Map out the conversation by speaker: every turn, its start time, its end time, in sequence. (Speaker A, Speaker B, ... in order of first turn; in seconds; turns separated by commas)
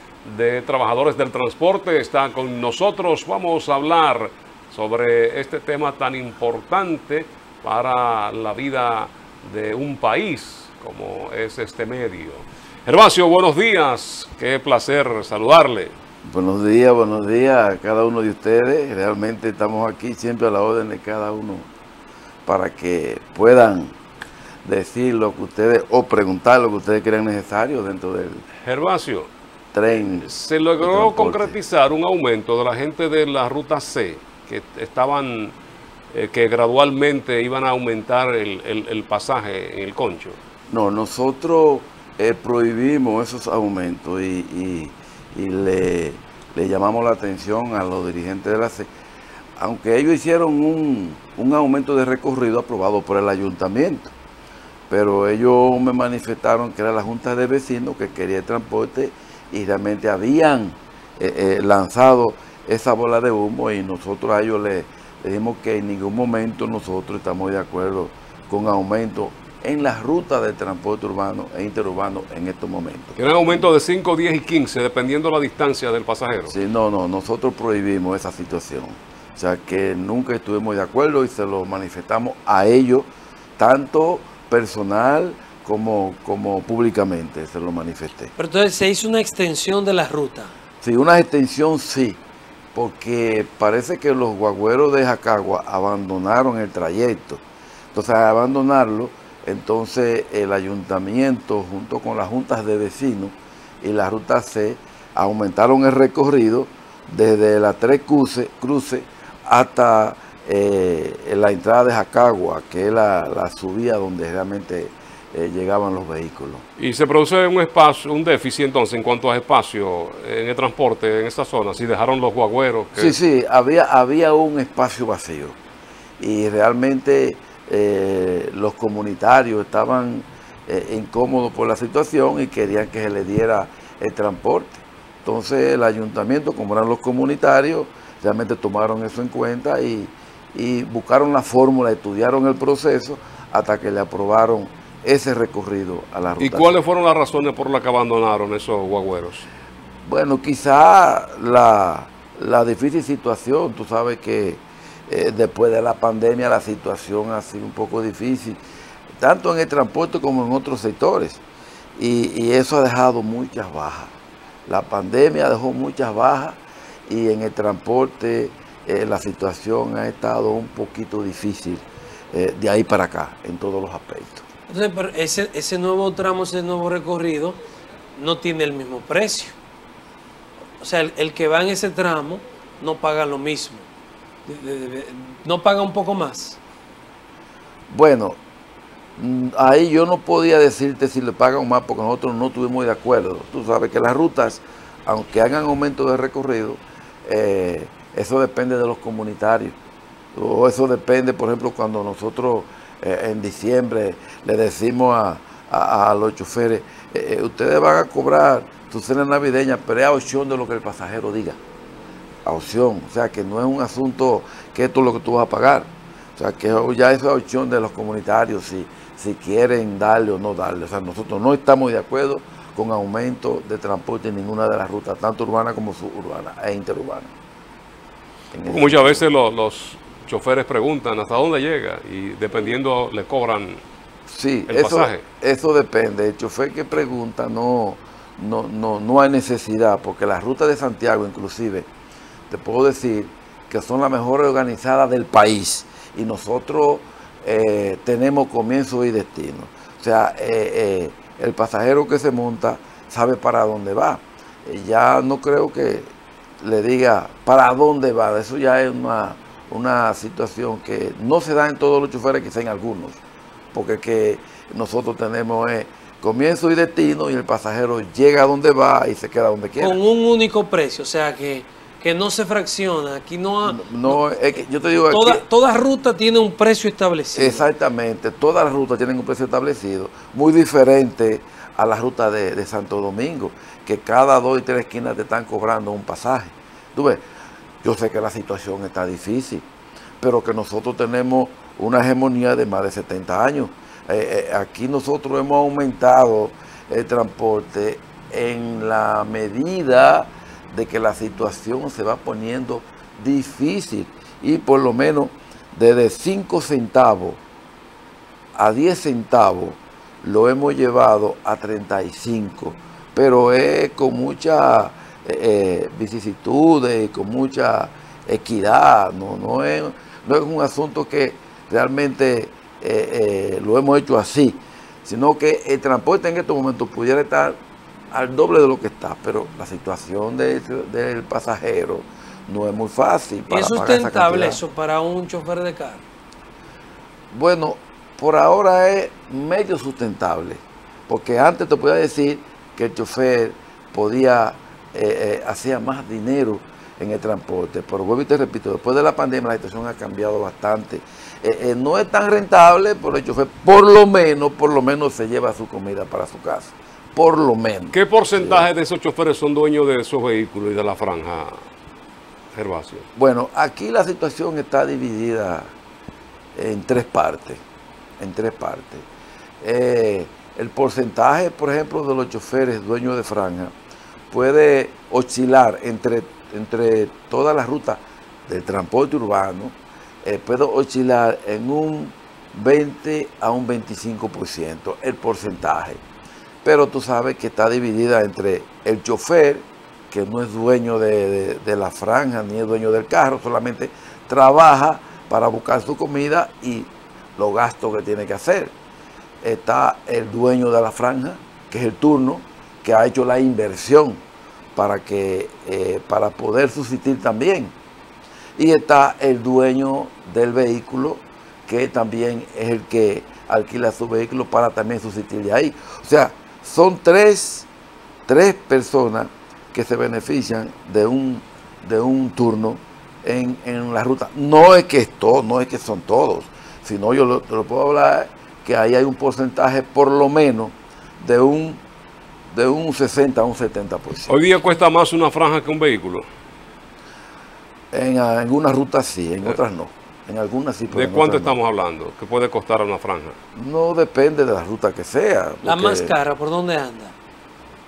Speaker A: 0.2-15.9, Speaker B: 16.2-21.7, Speaker B: 22.5-24.0, Speaker B: 24.6-28.4, Speaker A: 28.6-29.3, Speaker B: 29.7-31.6, Speaker A: 30.2-35.5, Speaker A: 36.1-40.4, Speaker B: 40.7-48.9, Speaker B: 49.6-54.1, Speaker B: 54.9-73.7, Speaker A: 73.2-76.5, Speaker B: 76.5-88.3, Speaker C: 88.4-90.5, Speaker B: 90.8-92.2, Speaker B: 92.8-116.7, Speaker A: 116.8-123.2, Speaker B: 123.0-125.6, Speaker B: 126.2-146.8, Speaker A: 146.4-149.5, Speaker B: 150.1-158.6, Speaker B: 159.2-161.4, Speaker B: 162.0-164.1, Speaker B: 164.7-174.4, Speaker C: 174.7-177.6, Speaker C: 178.2-179.6, Speaker C: 180.8-183.9, Speaker C: 184.5-186.6, Speaker B: 187.9-188.4, Speaker B: 189.2-199.8, Speaker B: 200.3-211.6, Speaker B: 212.4-227.3, Speaker B: 228.5-229.3, Speaker A: 228.7-233.8, Speaker B: 234.3-241.9, Speaker A: 234.7-235.2, Speaker B: 242.5-263.2, Speaker B: 263.7-270.0, Speaker C: 269.8-274.2, Speaker B: 273.6-275.4, Speaker C: 275.1-277.7, Speaker B: 277.3-287.2, Speaker B: 287.8-289.7, Speaker B: 290.2-307.4, Speaker B: 308.6-327.6, Speaker B: 328.1-334.6, Speaker C: 333.5-336.0, Speaker B: 337.3-358.7, Speaker A: 357.9-361.6, Speaker A: 362.5-363.1, Speaker B: 363.2-365.7, Speaker B: 366.6-367.6, Speaker B: 368.2-369.1, Speaker B: 369.6-373.7, Speaker B: 374.3-386.0, Speaker B: 386.6-398.7, Speaker B: 399.4-404.2, Speaker B: 404.8-407.7, Speaker B: 408.6-417.7, Speaker B: 418.3-431.8, Speaker B: 432.5-434.4, Speaker A: 434.3-436.3, Speaker B: 437.9-441.6, Speaker A: 440.9-443.4, Speaker B: 443.6-446.1, Speaker C: 445.6-447.1